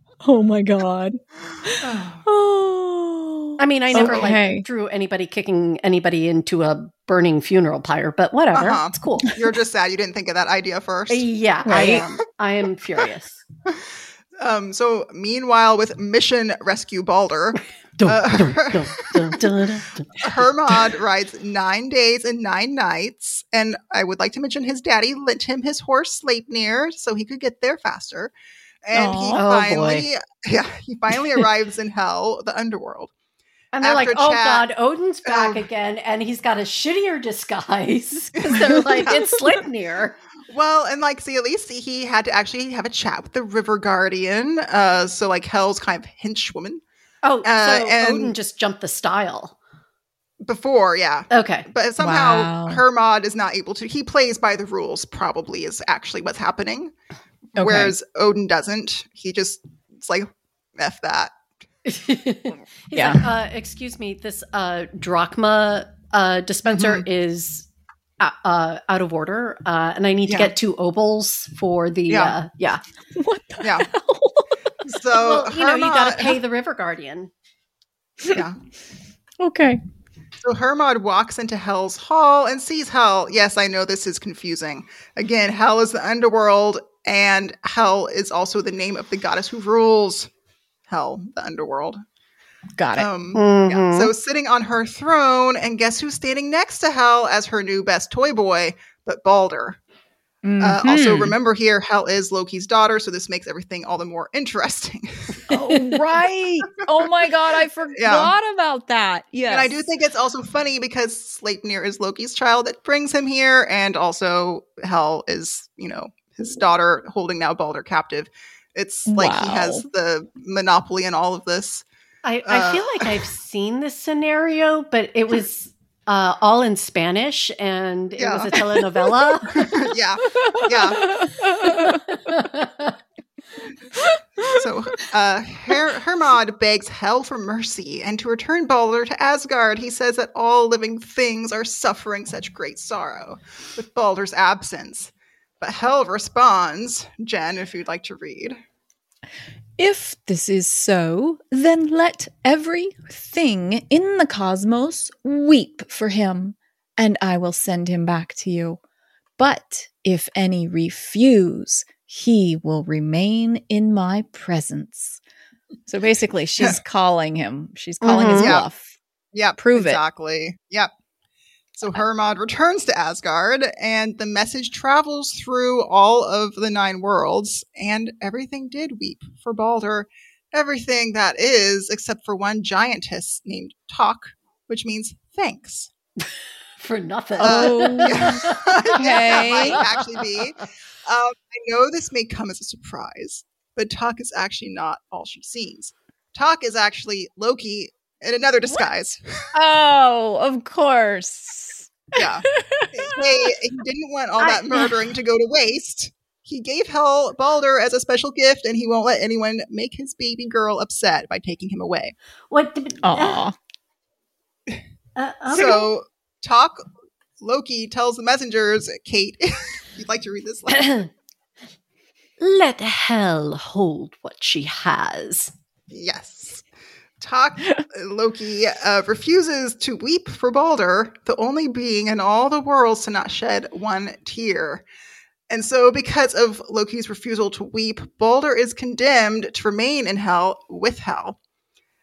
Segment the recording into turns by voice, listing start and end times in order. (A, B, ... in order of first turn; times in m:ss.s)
0:00.2-0:04.6 A
0:01.8-0:02.2 B
0:03.6-0:09.3 C
0:03.9-0:04.3 B
0:08.6-0:11.3 B
0:11.1-0:13.4 C
0:11.7-0:12.0 A
0:13.7-0:19.4 B
0:18.0-0:20.2 C
0:20.2-0:28.3 B
0:28.8-0:33.1 B
0:28.9-0:29.4 A
0:29.3-0:30.1 C
0:33.7-0:40.2 C
0:33.8-0:34.7 B
0:35.2-0:35.6 B
0:38.5-0:39.3 B
0:40.5-0:46.8 B
0:47.2-0:49.6 C
0:47.4-0:48.4 B
0:50.4-0:56.9 B
0:51.3-0:51.7 C
0:52.0-0:52.8 A
0:57.6-1:01.3 B
0:57.6-0:58.0 A
1:01.8-1:07.7 C
1:03.0-1:03.2 A
1:06.7-1:07.1 B
1:08.2-1:12.8 C
1:10.3-1:10.5 B
1:12.1-1:12.4 B
1:13.2-1:14.6 A
1:13.6-1:13.9 B
1:14.9-1:16.4 B
1:15.1-1:17.3 C
1:18.3-1:18.6 B
1:19.4-1:19.8 A
1:20.4-1:30.3 B
1:30.9-1:32.0 B
1:32.8-1:33.1 A
1:33.0-1:39.8 B
1:33.3-1:34.1 C
1:40.4-1:41.4 A
1:40.6-1:45.4 B
1:45.5-1:49.9 A
1:48.0-1:48.3 B
1:49.5-2:01.8 B
1:59.1-1:59.8 A
2:02.2-2:09.7 C
2:02.5-2:03.1 B
2:08.2-2:08.5 B
2:09.5-2:11.2 B
2:10.3-2:12.0 A
2:11.7-2:13.0 C
2:14.0-2:14.6 A
2:14.4-2:28.6 B
2:29.8-2:38.8 A
2:39.4-2:45.2 A
2:45.9-2:48.9 A
2:48.0-2:48.6 C
2:48.3-2:48.7 B
2:49.3-2:50.9 B
2:49.6-2:50.0 A
2:51.8-3:05.9 B
3:06.8-3:10.7 C
3:07.4-3:19.5 B
3:07.4-3:09.8 A
3:19.5-3:23.5 A
3:22.1-3:32.2 B
3:24.4-3:24.9 C
3:32.5-3:33.4 C
3:33.0-3:33.6 A
3:35.2-3:35.9 C
3:35.5-3:36.8 B
3:37.4-3:40.9 B
3:40.7-3:41.1 C
3:42.4-3:45.5 C
3:45.9-3:46.6 B
3:47.2-3:54.8 B
3:55.5-4:01.4 B